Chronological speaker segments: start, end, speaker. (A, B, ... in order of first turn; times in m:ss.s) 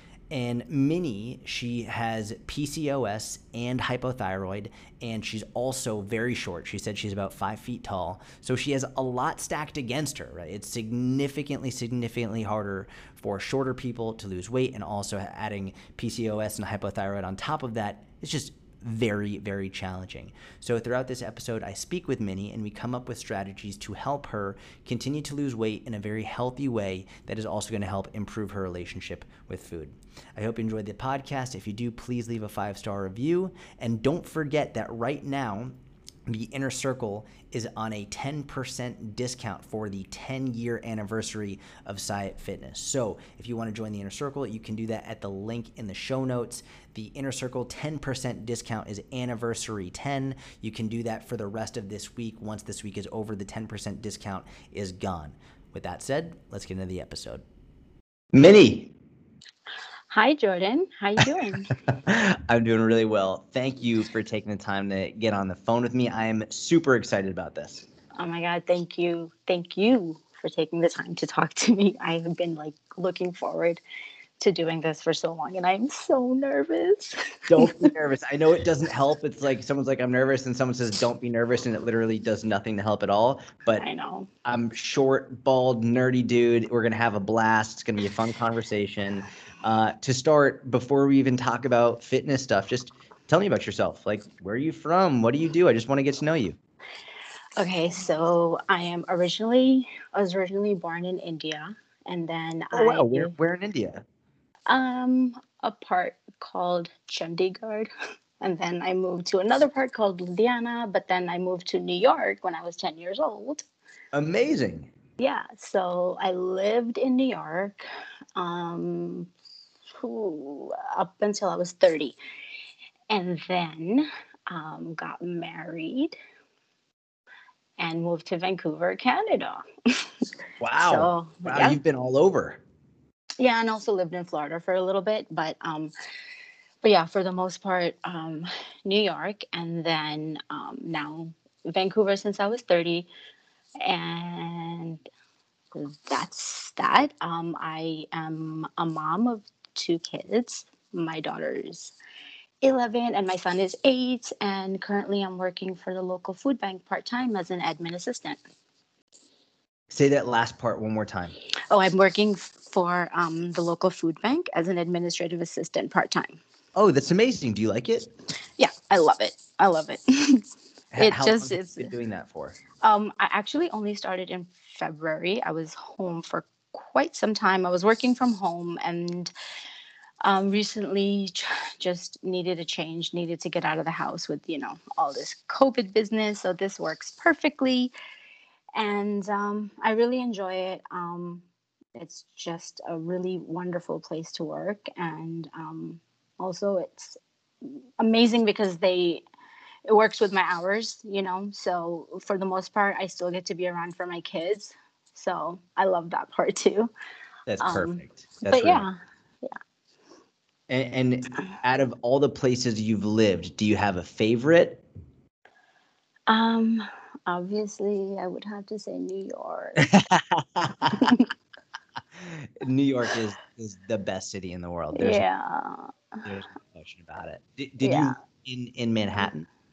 0:00.3-0:35.7 A
0:36.3-0:57.4 A
0:58.3-0:58.9 A
1:00.1-1:01.7 B
1:02.0-1:07.8 A
1:08.2-1:13.8 B
1:14.4-1:17.9 B
1:17.5-1:23.8 A
1:23.8-1:24.3 B
1:24.4-1:36.6 A
1:37.6-1:43.3 B
1:42.7-1:44.0 A
1:44.7-1:47.9 B
1:48.4-1:53.6 B
1:54.1-1:54.9 A
1:55.2-1:57.8 B
1:58.4-1:59.3 B
2:00.0-2:02.2 B
2:03.1-2:06.2 B
2:07.8-2:10.1 B
2:10.6-2:12.6 A
2:10.8-2:11.8 B
2:13.4-2:15.9 B
2:16.8-2:23.1 B
2:23.8-2:25.0 B
2:25.7-2:31.9 B
2:32.6-2:38.4 B
2:39.9-2:41.3 A
2:41.7-2:46.4 B
2:46.7-2:48.1 A
2:48.6-2:50.4 B
2:50.9-2:52.6 A
2:51.0-2:51.9 B
2:52.8-2:59.3 B
3:00.2-3:07.9 B
3:08.8-3:11.4 B
3:12.0-3:19.2 B
3:19.8-3:26.9 B
3:27.5-3:28.9 A
3:27.6-3:29.5 B
3:30.7-3:34.8 A
3:36.3-3:39.8 B
3:39.8-3:41.1 A
3:41.0-3:41.3 B
3:42.2-3:45.2 A
3:44.9-3:46.2 B
3:46.2-3:49.5 A
3:47.8-3:48.2 B